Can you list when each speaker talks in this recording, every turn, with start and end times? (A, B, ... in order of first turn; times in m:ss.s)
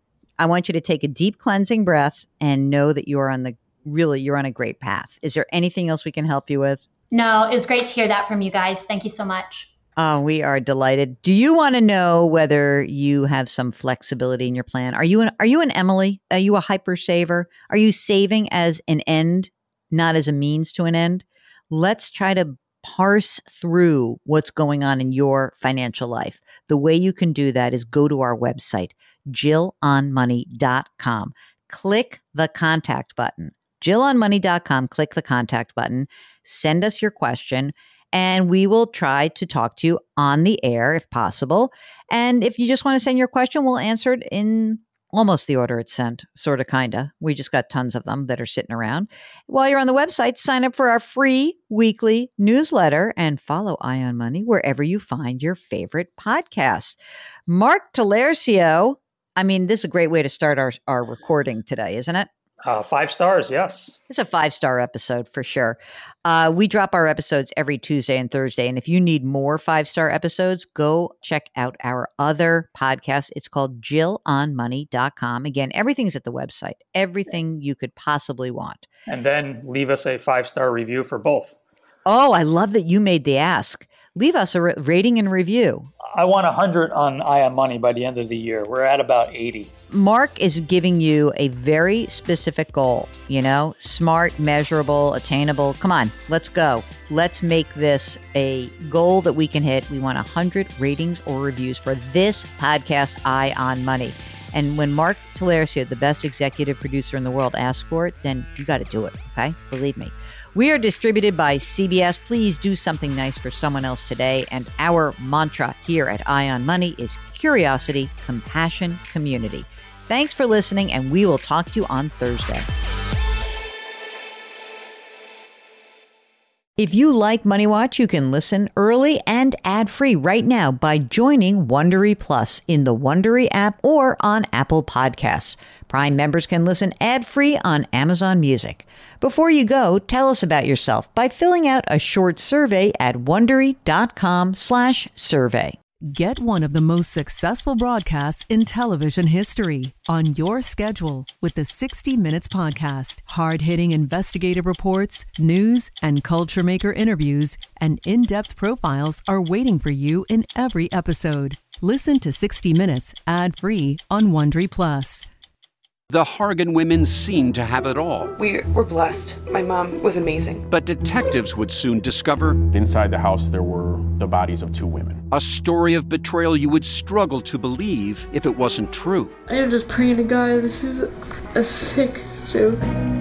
0:00.4-0:06.8 A
0:07.1-0:09.7 B
0:10.0-1:02.3 A
1:02.6-1:04.0 C
1:04.1-1:18.9 A
1:19.1-1:21.6 C
1:22.1-1:25.9 A
1:26.2-1:29.7 C
1:29.9-2:02.7 A
2:06.8-2:25.8 A
2:26.0-2:45.3 D
2:46.1-2:48.3 E
2:48.3-2:50.7 F
2:50.7-2:52.6 E
2:52.7-2:55.2 G
2:55.3-2:59.4 E
2:59.5-3:02.9 H